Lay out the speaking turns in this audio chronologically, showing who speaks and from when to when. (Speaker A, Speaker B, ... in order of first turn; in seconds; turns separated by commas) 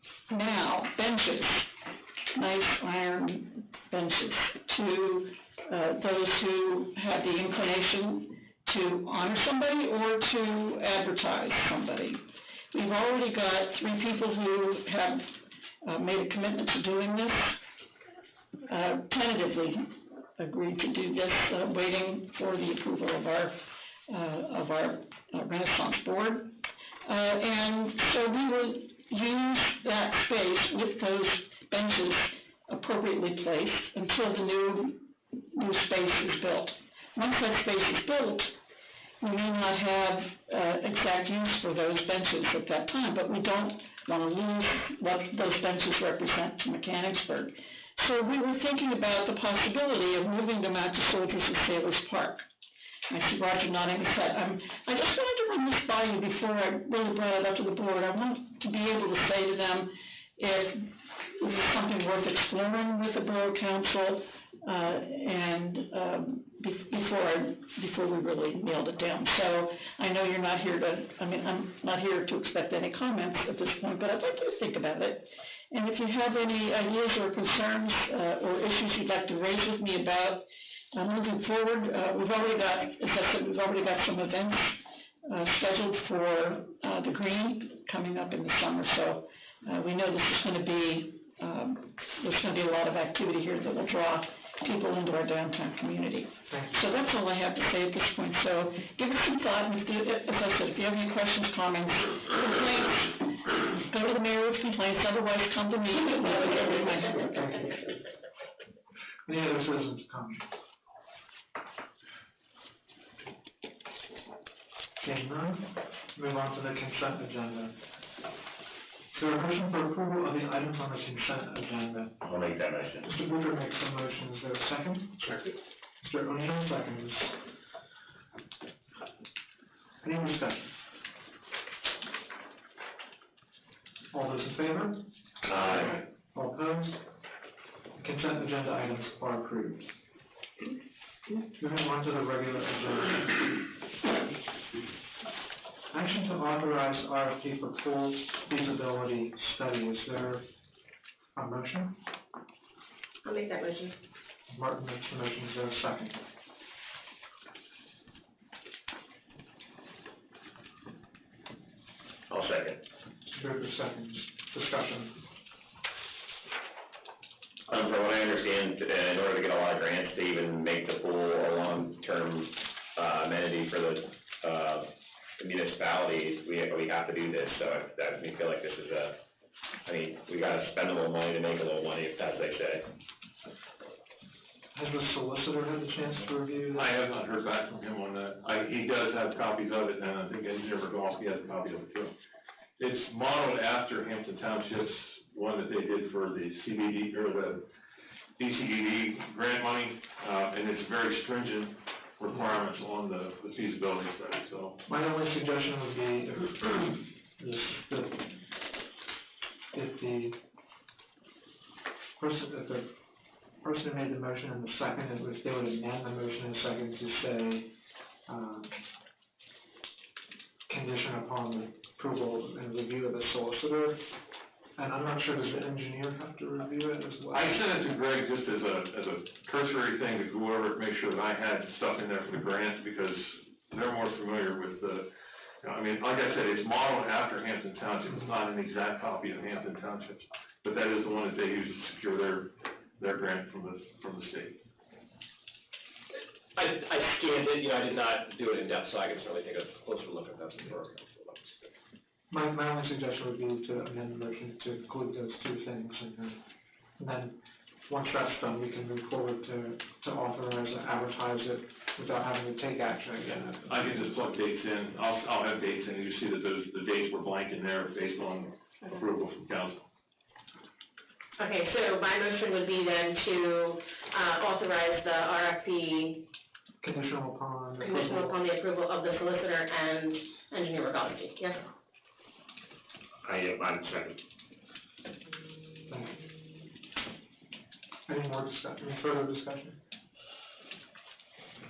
Speaker A: 0.3-1.7, Speaker A: 2.4-17.6, Speaker A: 18.7-23.6, Speaker A: 24.1-26.5, Speaker A: 27.1-38.5, Speaker A: 39.2-52.5, Speaker A: 53.1-107.8, Speaker B: 96.5-96.8, Speaker B: 109.3-110.5, Speaker B: 115.0-117.8, Speaker B: 119.1-122.2, Speaker C: 122.2-123.1, Speaker B: 123.1-125.4, Speaker B: 126.0-127.4, Speaker B: 130.0-130.7, Speaker B: 134.1-135.1, Speaker B: 135.8-137.0, Speaker B: 138.0-139.9, Speaker B: 141.6-143.5, Speaker B: 145.9-150.5, Speaker B: 151.3-152.0, Speaker D: 153.2-154.0, Speaker B: 154.5-156.2, Speaker C: 162.3-162.8, Speaker B: 163.3-165.2, Speaker C: 167.7-179.2, Speaker C: 179.8-182.8, Speaker B: 184.7-187.0, Speaker E: 186.7-192.1, Speaker E: 192.8-197.6, Speaker E: 198.4-204.8, Speaker B: 204.9-208.4, Speaker B: 209.7-210.4, Speaker B: 212.2-212.9, Speaker B: 213.6-217.7, Speaker B: 218.3-218.8, Speaker B: 220.7-224.1, Speaker B: 224.8-227.6, Speaker E: 227.3-235.1, Speaker E: 235.6-244.6, Speaker F: 246.6-251.7, Speaker B: 252.3-256.4, Speaker B: 257.0-264.0, Speaker E: 263.7-269.8, Speaker D: 271.4-276.2, Speaker B: 276.8-278.3, Speaker D: 277.8-281.6, Speaker C: 283.2-284.1, Speaker B: 285.9-286.2, Speaker B: 288.1-289.8